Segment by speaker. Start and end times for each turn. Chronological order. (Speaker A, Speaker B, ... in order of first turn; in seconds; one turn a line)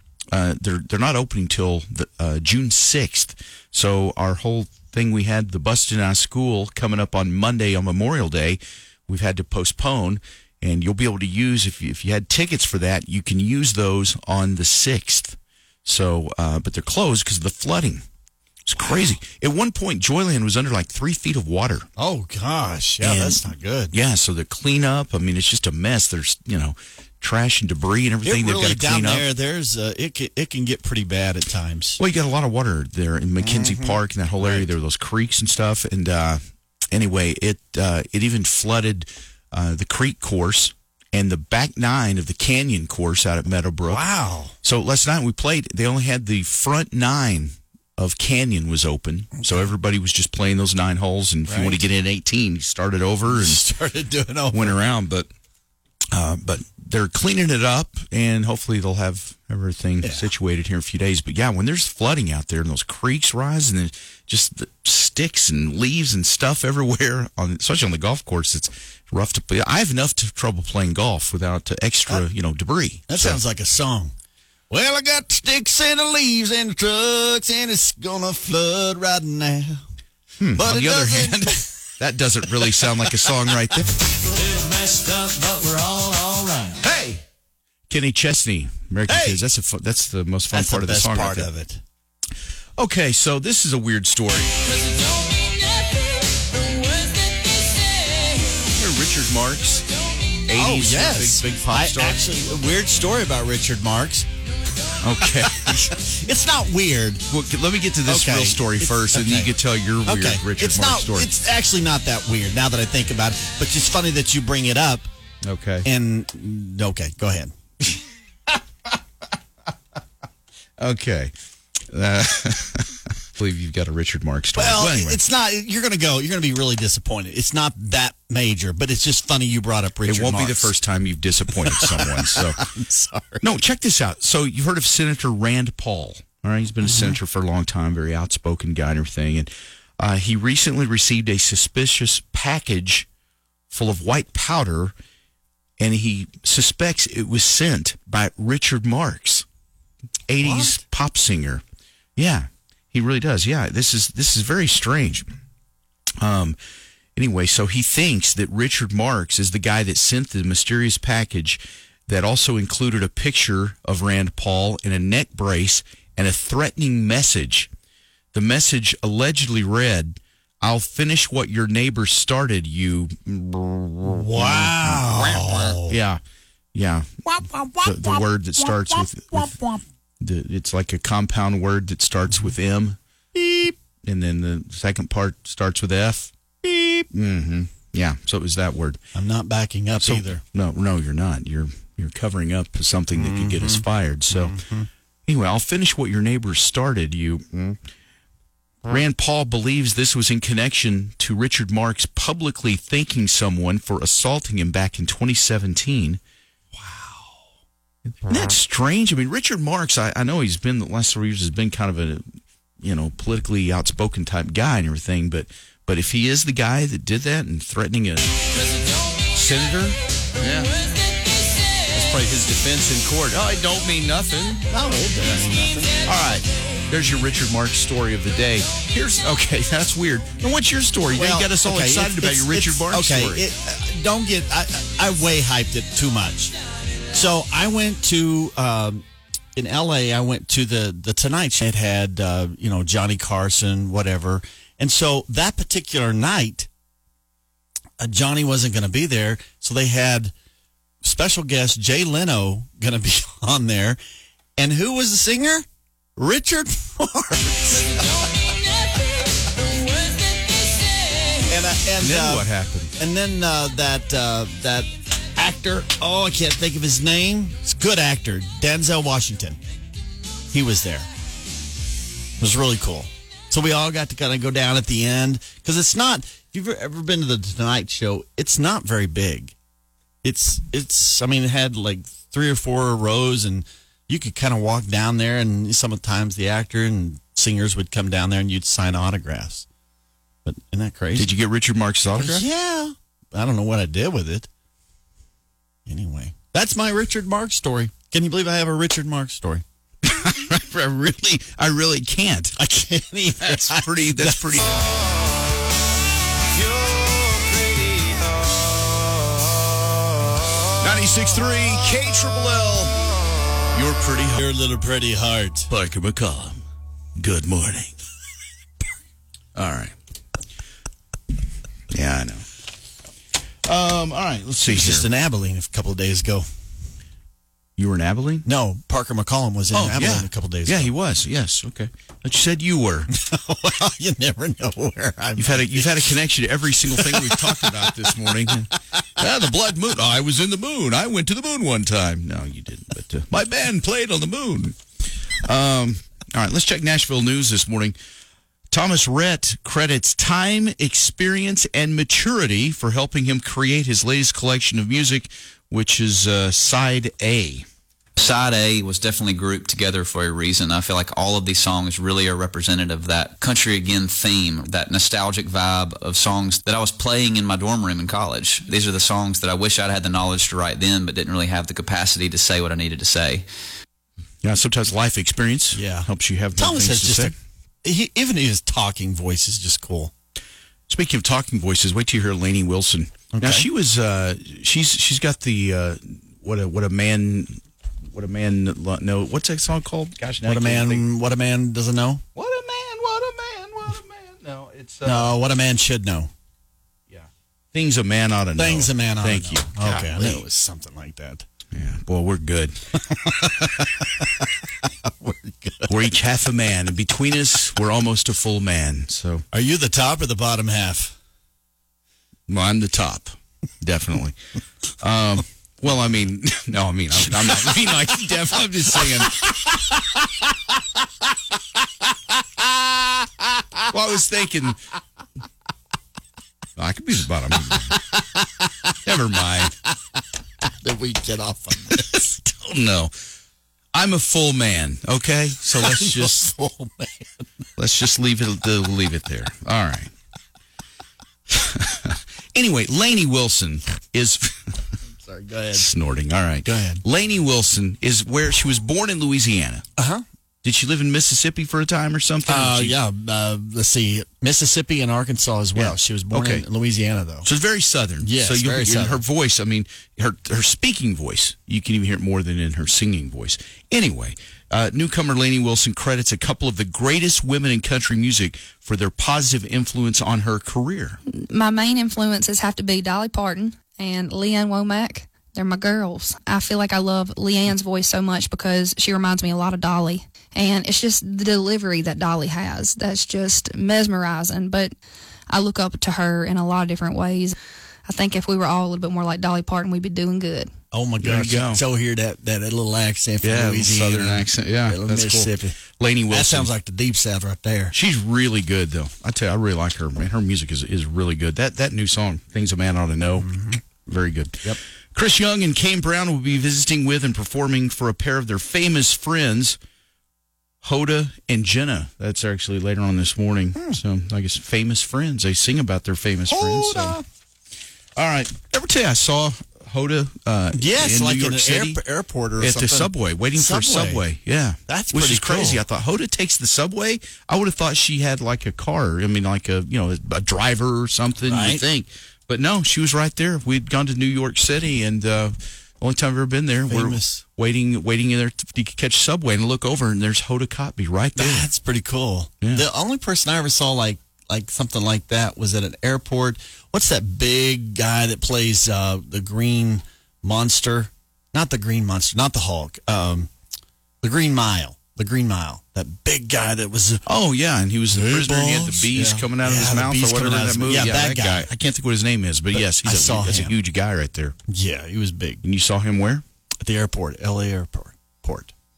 Speaker A: 0.3-18.0
Speaker A: 18.6-21.9
Speaker B: 22.0-23.9
Speaker A: 23.0-29.3
Speaker B: 28.2-32.0
Speaker A: 32.0-44.0
Speaker B: 33.4-34.7
Speaker B: 43.8-44.5
Speaker A: 44.6-53.6
Speaker B: 51.5-51.8
Speaker B: 53.3-54.7
Speaker A: 54.5-55.3
Speaker A: 56.1-73.4
Speaker B: 60.0-60.3
Speaker B: 73.1-74.1
Speaker B: 74.7-79.8
Speaker A: 80.4-83.9
Speaker B: 80.5-81.7
Speaker B: 82.6-83.2
Speaker B: 84.5-86.8
Speaker A: 86.8-87.2
Speaker A: 87.9-91.5
Speaker B: 89.1-89.4
Speaker B: 90.5-91.8
Speaker A: 92.8-94.6
Speaker A: 98.7-99.8
Speaker A: 100.5-102.2
Speaker B: 100.5-104.3
Speaker A: 105.0-105.9
Speaker B: 105.2-107.2
Speaker A: 107.3-111.3
Speaker B: 108.1-109.5
Speaker B: 110.0-115.1
Speaker A: 115.4-115.8
Speaker B: 115.8-117.5
Speaker A: 120.8-121.3
Speaker A: 121.9-125.2
Speaker B: 124.6-130.7
Speaker A: 130.0-132.6
Speaker B: 131.6-133.4
Speaker A: 133.4-143.1
Speaker B: 136.8-137.2
Speaker A: 143.7-144.9
Speaker A: 145.8-149.4
Speaker A: 150.3-151.6
Speaker B: 150.4-150.8
Speaker A: 152.2-155.3
Speaker A: 156.2-156.6
Speaker A: 157.2-167.7
Speaker A: 168.3-176.2
Speaker B: 174.1-175.9
Speaker A: 176.7-179.6
Speaker B: 177.5-177.9
Speaker B: 179.5-179.8
Speaker A: 180.2-183.0
Speaker B: 183.3-183.7
Speaker A: 184.0-186.3
Speaker B: 186.6-187.1
Speaker A: 187.1-189.0
Speaker B: 189.1-190.4
Speaker A: 190.0-194.6
Speaker B: 193.2-194.9
Speaker A: 195.2-197.8
Speaker A: 198.9-206.2
Speaker B: 206.7-207.4
Speaker B: 208.2-208.5
Speaker A: 208.3-212.2
Speaker A: 212.8-218.3
Speaker A: 219.3-220.8
Speaker A: 221.9-224.7
Speaker B: 224.7-225.9
Speaker A: 225.2-233.4
Speaker B: 231.1-236.5
Speaker B: 237.1-246.7
Speaker B: 248.0-250.3
Speaker B: 251.0-254.0
Speaker B: 254.6-258.1
Speaker B: 261.4-262.5
Speaker A: 262.0-262.9
Speaker B: 263.0-269.6
Speaker B: 270.5-271.1
Speaker B: 272.4-279.5
Speaker B: 280.2-289.6
Speaker B: 290.4-291.3
Speaker A: 291.1-292.4
Speaker B: 292.1-294.5
Speaker B: 295.9-299.6
Speaker A: 300.0-302.6
Speaker B: 302.6-304.7
Speaker A: 303.4-304.7
Speaker A: 310.8-312.9
Speaker A: 313.7-314.4
Speaker B: 314.3-315.7
Speaker A: 315.7-316.6
Speaker A: 317.2-318.0
Speaker A: 319.5-319.9
Speaker A: 321.9-322.5
Speaker A: 323.6-325.1
Speaker B: 324.6-326.4
Speaker A: 327.8-328.4
Speaker B: 328.4-330.9
Speaker A: 329.7-333.1
Speaker B: 333.1-336.1
Speaker A: 335.4-344.8
Speaker B: 336.9-338.6
Speaker A: 345.4-347.9
Speaker A: 348.7-357.6
Speaker C: 358.2-373.4
Speaker A: 374.4-377.4
Speaker B: 375.7-380.1
Speaker A: 380.9-391.1
Speaker B: 383.3-383.6
Speaker B: 390.4-392.2
Speaker A: 392.4-395.4
Speaker B: 395.0-396.3
Speaker A: 397.1-400.4
Speaker B: 398.6-401.4
Speaker A: 401.7-402.8
Speaker B: 403.1-405.9
Speaker A: 405.9-409.4
Speaker B: 409.5-411.1
Speaker A: 412.5-414.4
Speaker A: 415.0-420.0
Speaker B: 419.0-419.6
Speaker B: 422.6-423.8
Speaker A: 423.9-424.8
Speaker A: 426.8-428.0
Speaker B: 427.9-428.9
Speaker A: 429.0-429.7
Speaker B: 430.6-432.3
Speaker A: 431.9-433.1
Speaker A: 433.9-436.5
Speaker B: 435.7-437.5
Speaker A: 437.8-440.1
Speaker A: 441.5-444.8
Speaker B: 445.2-445.9
Speaker A: 445.7-449.9
Speaker B: 446.6-447.0
Speaker B: 450.0-450.2
Speaker A: 450.6-453.0
Speaker B: 452.5-457.5
Speaker A: 455.8-456.6
Speaker A: 457.4-471.2
Speaker B: 458.2-459.2
Speaker D: 471.3-484.9
Speaker D: 485.5-490.7
Speaker B: 490.9-495.8
Speaker A: 491.2-491.8
Speaker A: 493.4-496.7
Speaker B: 496.3-497.9
Speaker A: 497.9-509.8
Speaker B: 503.4-503.8
Speaker A: 510.8-517.2
Speaker B: 516.5-517.2
Speaker A: 518.1-522.0
Speaker B: 520.7-524.2
Speaker A: 522.6-541.7
Speaker B: 524.9-525.8
Speaker B: 531.5-531.8
Speaker B: 536.9-537.4
Speaker B: 541.4-553.5
Speaker B: 554.2-557.2
Speaker A: 557.2-564.6
Speaker B: 558.1-561.7
Speaker B: 562.7-563.7
Speaker B: 564.7-565.6
Speaker A: 565.6-566.4
Speaker B: 566.8-568.7